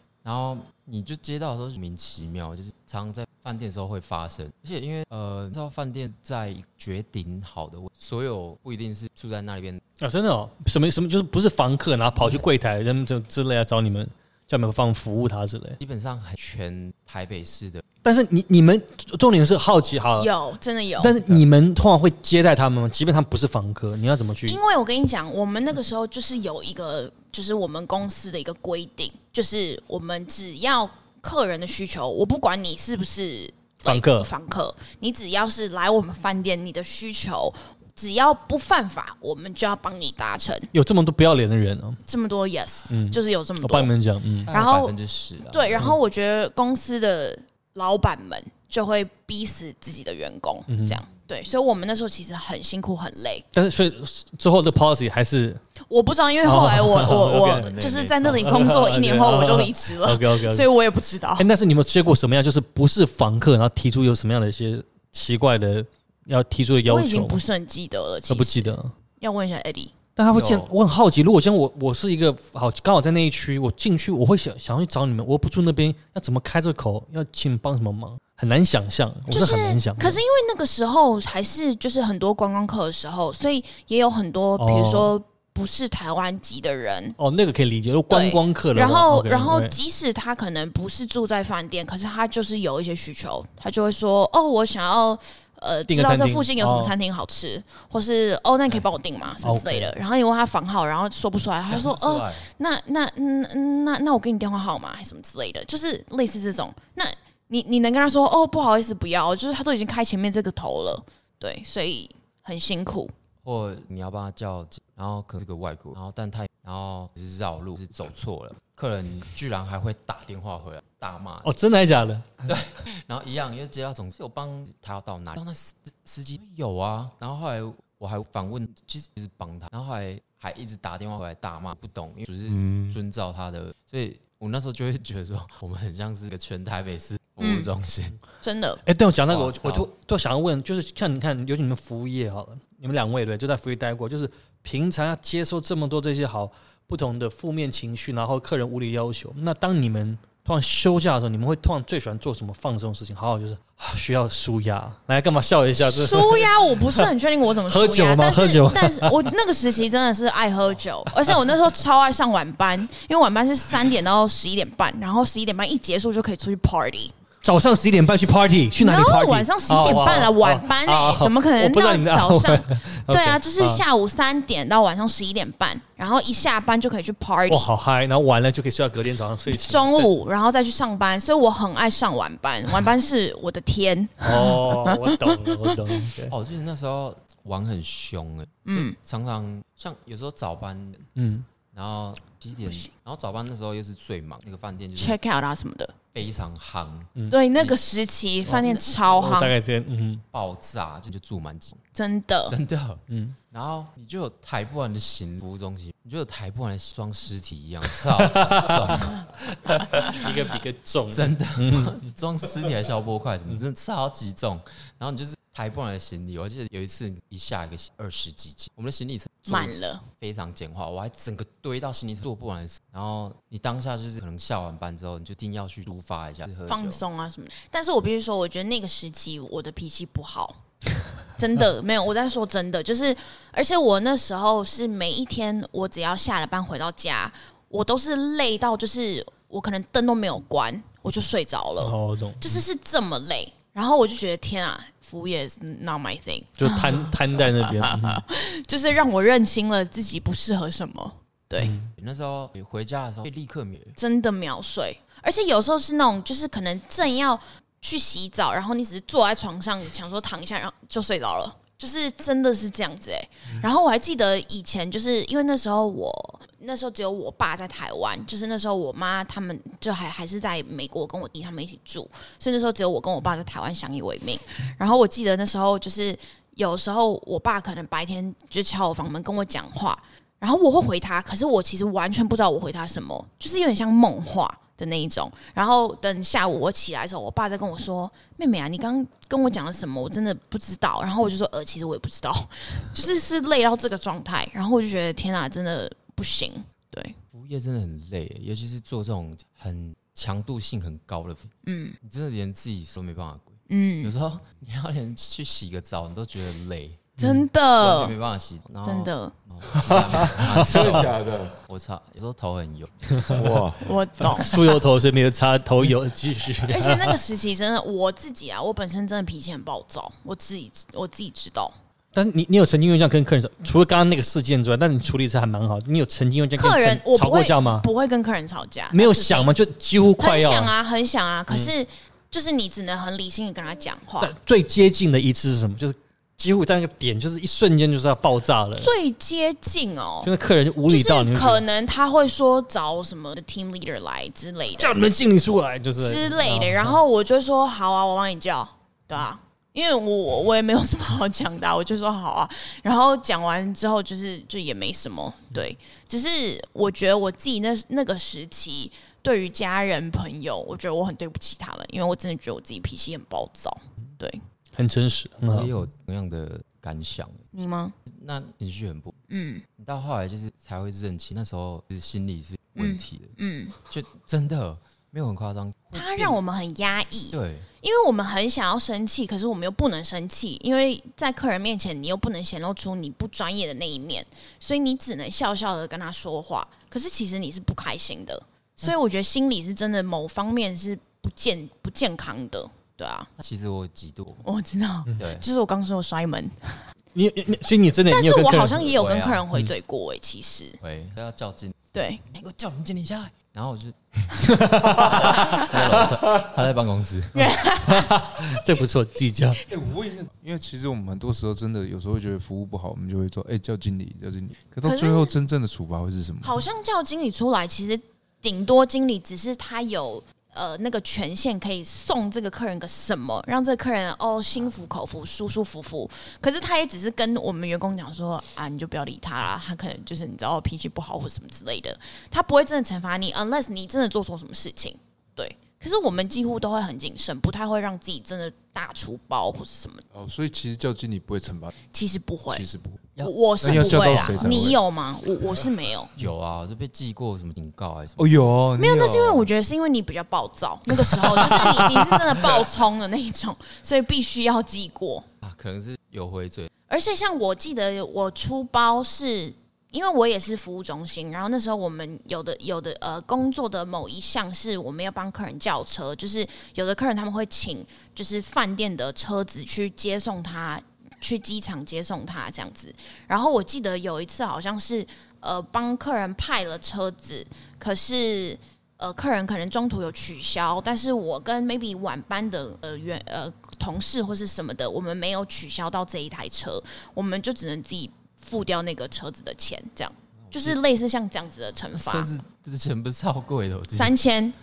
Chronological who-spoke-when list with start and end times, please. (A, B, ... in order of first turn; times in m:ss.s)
0:00.2-0:09.8 A
0:10.0-0:15.8 B
0:12.2-0:12.4 A
0:15.8-0:17.8 A
0:18.0-0:20.3 B
0:20.1-0:21.2 C
0:21.0-0:24.6 B
0:24.5-0:40.7 C
0:33.8-0:34.3 B
0:40.7-0:42.0 B
0:42.0-0:43.9 C
0:42.9-0:44.5 B
0:44.5-0:45.9 A
0:44.5-0:44.9 C
0:45.5-0:53.4 C
0:50.7-0:51.0 B
0:53.5-0:55.6 B
0:55.9-1:01.5 C
0:56.4-0:57.7 B
0:57.1-0:58.8 A
0:58.2-1:00.7 B
1:01.4-1:07.4 B
1:06.9-1:09.9 C
1:08.3-1:08.9 B
1:10.2-1:20.2 B
1:10.3-1:10.7 A
1:19.3-1:27.2 C
1:24.6-1:25.1 B
1:27.2-1:29.8 B
1:28.1-1:53.1 C
1:35.9-1:36.9 B
1:39.4-1:39.9 B
1:41.7-1:42.5 A
1:53.4-2:01.6 A
2:01.4-2:02.5 B
2:02.4-2:18.2 A
2:12.5-2:13.0 D
2:17.4-2:17.7 C
2:18.4-2:18.8 C
2:18.8-2:37.1 B
2:19.3-2:19.9 A
2:35.8-2:47.1 C
2:37.7-2:39.3 B
2:47.4-2:53.8 B
2:48.8-2:57.7 C
2:57.5-3:00.1 B
2:59.5-3:05.7 C
3:04.2-3:06.3 B
3:06.3-3:11.1 A
3:08.7-3:09.0 C
3:11.2-3:11.4 B
3:11.7-3:15.2 A
3:15.0-3:16.0 C
3:16.1-3:17.8 A
3:17.3-3:19.5 C
3:18.4-3:20.2 B
3:20.3-3:21.8 A
3:21.9-3:22.6 C
3:22.5-3:30.3 A
3:23.1-3:23.4 B
3:28.3-3:29.1 B
3:29.9-3:31.9 B
3:31.1-3:47.0 A
3:39.5-3:40.0 C
3:46.7-3:50.6 C
3:51.4-4:11.7 C
4:01.8-4:02.6 B
4:06.6-4:08.2 B
4:11.6-4:11.9 B
4:12.0-4:14.0 A
4:14.0-4:57.2 C
4:57.3-5:07.3 A
5:01.6-5:02.0 C
5:03.7-5:04.1 C
5:07.2-5:08.1 C
5:07.8-5:11.1 A
5:08.8-5:09.3 C
5:10.0-5:11.6 D
5:10.2-5:11.0 B
5:11.7-5:13.5 A
5:13.2-5:13.9 D
5:13.8-5:14.8 C
5:14.2-5:17.2 B
5:16.6-5:21.7 C
5:22.1-5:27.9 B
5:26.6-5:29.5 C
5:28.9-5:30.7 B
5:30.2-5:34.3 C
5:34.2-5:38.9 B
5:38.8-5:40.3 C
5:40.2-5:41.6 B
5:40.9-5:45.1 C
5:44.8-5:47.0 B
5:46.0-6:04.4 C
6:04.8-6:05.7 B
6:05.5-6:07.5 A
6:07.5-6:07.9 C
6:08.1-6:09.2 A
6:09.3-6:09.6 C
6:09.8-6:16.4 A
6:12.8-6:13.8 C
6:15.9-6:33.3 C
6:17.3-6:17.7 A
6:33.4-6:34.4 A
6:34.4-6:36.8 C
6:35.2-6:35.5 A
6:37.1-6:38.8 B
6:38.1-6:40.8 C
6:38.8-6:39.5 A
6:40.8-6:41.8 A
6:41.9-6:42.2 C
6:42.3-6:47.5 A
6:44.4-6:45.2 B
6:45.4-6:45.7 C
6:47.3-6:48.1 C
6:47.8-6:49.6 B
6:49.7-6:50.3 D
6:50.3-6:56.6 E
6:54.8-6:55.3 C
6:56.4-7:20.0 C
7:20.1-7:21.7 E
7:21.9-7:22.7 C
7:22.5-7:23.0 E
7:23.2-7:24.2 A
7:23.2-7:26.1 C
7:23.6-7:24.8 E
7:26.2-7:28.3 A
7:28.2-7:29.5 E
7:28.3-7:29.0 D
7:28.7-7:35.3 C
7:30.9-7:32.6 E
7:35.4-7:36.7 A
7:36.9-8:12.3 C
8:10.4-8:10.8 A
8:11.9-8:14.2 A
8:13.9-8:14.6 C